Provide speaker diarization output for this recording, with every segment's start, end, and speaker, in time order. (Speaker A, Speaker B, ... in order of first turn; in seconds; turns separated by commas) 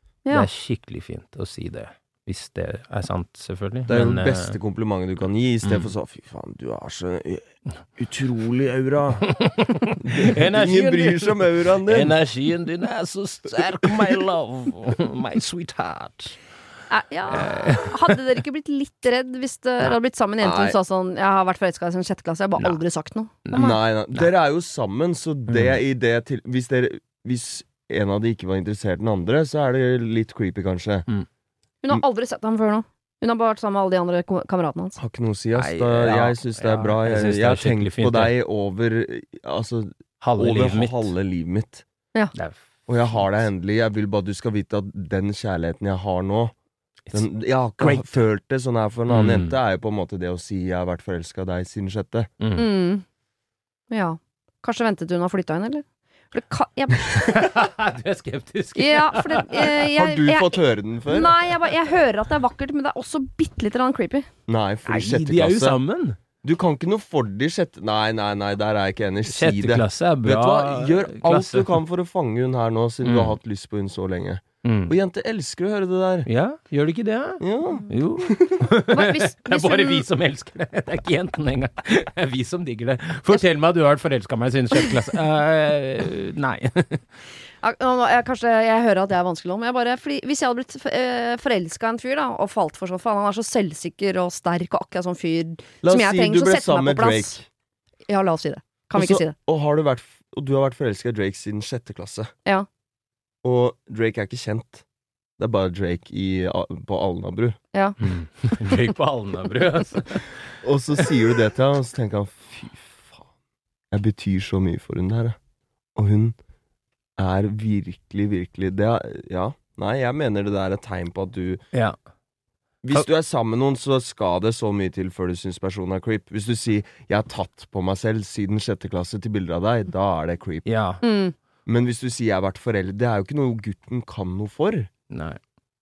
Speaker A: 0.3-4.6, Speaker B: 3.9-9.4, Speaker A: 9.3-11.3, Speaker B: 10.1-12.2, Speaker A: 11.9-16.4, Speaker C: 16.9-23.6, Speaker A: 17.3-17.9, Speaker B: 20.4-20.8, Speaker A: 23.4-24.3, Speaker B: 23.5-31.1, Speaker A: 25.5-25.7, Speaker C: 31.8-35.0, Speaker B: 35.0-41.8, Speaker A: 35.5-38.4, Speaker A: 40.2-41.1, Speaker A: 42.3-43.5, Speaker B: 42.9-46.5, Speaker B: 47.1-52.3, Speaker A: 47.8-48.2, Speaker A: 49.1-49.5, Speaker A: 52.4-52.7, Speaker C: 52.5-53.0, Speaker C: 53.9-57.6, Speaker A: 57.3-59.9, Speaker C: 58.7-64.3, Speaker B: 60.0-61.3, Speaker B: 64.5-65.8, Speaker A: 64.8-66.2, Speaker B: 66.4-76.3, Speaker A: 69.3-71.8, Speaker A: 73.0-73.4, Speaker A: 74.6-74.9, Speaker A: 76.3-87.1, Speaker B: 77.4-78.6, Speaker C: 78.9-80.0, Speaker C: 87.6-97.4, Speaker B: 95.8-97.5, Speaker C: 98.1-99.3, Speaker B: 99.0-102.3, Speaker B: 103.4-104.8, Speaker B: 105.4-107.6, Speaker C: 107.7-108.5, Speaker A: 108.0-110.5, Speaker B: 110.6-113.3, Speaker B: 113.9-115.4, Speaker B: 116.0-116.4, Speaker B: 117.2-121.6, Speaker B: 122.8-130.7, Speaker A: 130.6-131.0, Speaker C: 131.0-131.3, Speaker B: 131.7-134.9, Speaker A: 135.1-135.4